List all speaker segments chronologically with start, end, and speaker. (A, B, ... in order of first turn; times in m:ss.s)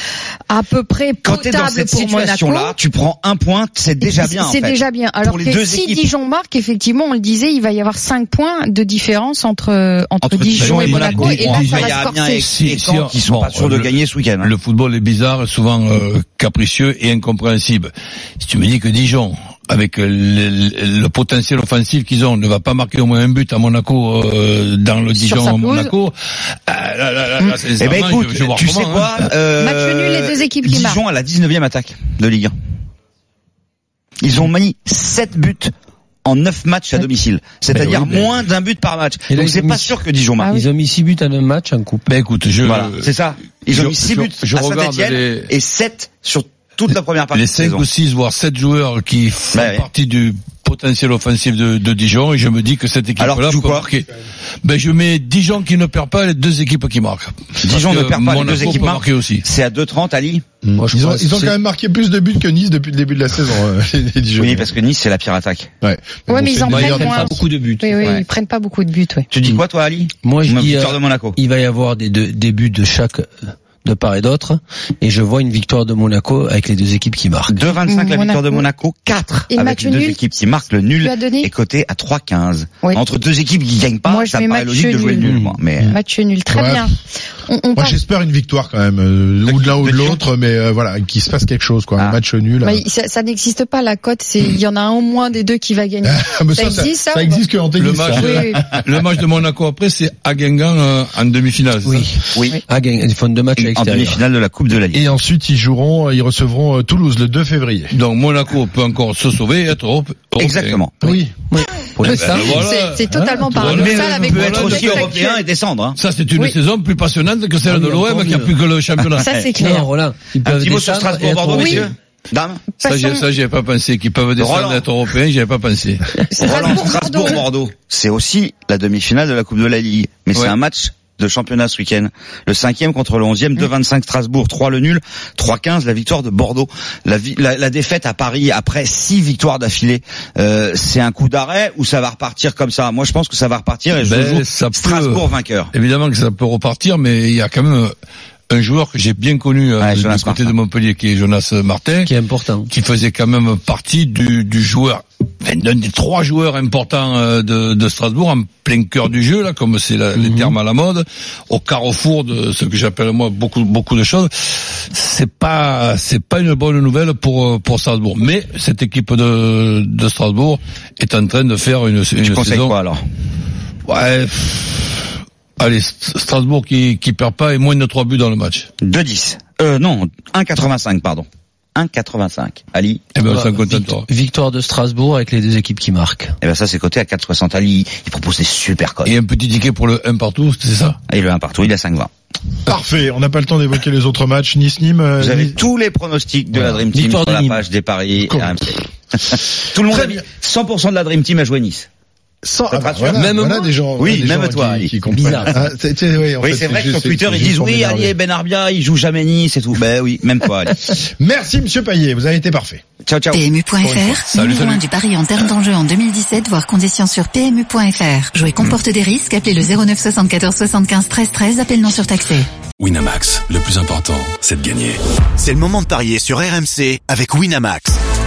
0:00.5-0:02.8 A
0:01.2-0:06.0 B
0:04.0-0:12.5 A
0:10.2-0:14.5 B
0:10.5-0:26.1 C
0:25.1-0:25.9 A
0:26.7-0:29.3 C
0:27.8-0:32.5 B
0:29.6-0:31.0 A
0:34.2-0:35.7 B
0:36.2-0:40.5 B
0:37.7-0:38.2 D
0:39.3-0:42.0 D
0:40.4-0:40.7 A
0:42.0-0:43.1 C
0:42.6-0:47.9 B
0:43.7-0:45.5 C
0:47.3-0:54.1 C
0:49.5-0:49.9 B
0:53.2-0:53.9 B
0:54.6-0:59.4 C
0:57.6-1:00.4 B
1:00.6-1:04.7 E
1:00.8-1:01.5 D
1:04.4-1:05.7 B
1:05.8-1:07.4 E
1:06.3-1:09.3 A
1:06.7-1:08.0 D
1:09.3-1:11.4 B
1:10.2-1:13.3 D
1:13.8-1:17.6 D
1:17.5-1:25.9 B
1:17.9-1:18.6 A
1:19.5-1:20.4 A
1:21.0-1:21.5 A
1:24.0-1:26.9 A
1:25.2-1:25.6 D
1:26.5-1:26.9 E
1:27.4-1:28.0 A
1:27.7-1:32.8 E
1:29.4-1:30.2 B
1:32.6-1:37.4 A
1:36.0-1:38.8 E
1:37.8-1:42.1 C
1:38.1-1:38.6 A
1:41.8-1:44.2 D
1:42.3-1:42.6 B
1:43.5-1:45.0 B
1:44.9-1:47.9 E
1:47.9-1:50.8 C
1:50.4-1:50.9 B
1:51.0-1:51.3 E
1:51.0-1:53.9 D
1:52.0-1:55.1 C
1:52.2-1:55.4 A
1:53.6-1:56.0 B
1:55.9-1:59.2 C
1:57.6-1:58.5 D
1:59.0-1:59.5 B
1:59.2-1:59.9 A
1:59.6-2:01.9 D
2:00.4-2:02.6 B
2:01.5-2:01.9 A
2:02.8-2:03.2 A
2:02.8-2:06.1 C
2:04.4-2:04.9 B
2:06.2-2:07.4 A
2:06.4-2:25.7 B
2:24.0-2:27.9 C
2:28.5-2:32.1 C
2:29.8-2:30.5 B
2:32.0-2:32.7 D
2:32.7-2:44.3 C
2:40.2-2:40.6 D
2:44.9-2:52.7 C
2:52.2-2:53.0 B
2:53.8-2:58.7 C
2:58.8-3:03.0 B
3:03.2-3:04.0 C
3:03.2-3:06.4 D
3:06.4-3:09.2 B
3:09.0-3:11.0 C
3:11.1-3:12.1 B
3:12.6-3:15.6 E
3:15.2-3:21.9 B
3:16.5-3:16.8 E
3:16.9-3:17.6 D
3:18.2-3:18.6 E
3:19.9-3:20.2 E
3:22.4-3:28.2 E
3:22.7-3:23.3 B
3:23.1-3:23.7 D
3:24.0-3:25.5 B
3:25.1-3:25.6 D
3:26.4-3:30.8 B
3:30.9-3:32.8 E
3:33.0-3:33.5 B
3:33.3-3:42.5 F
3:33.8-3:34.2 E
3:34.3-3:34.8 C
3:42.8-3:45.0 G
3:45.4-3:48.0 H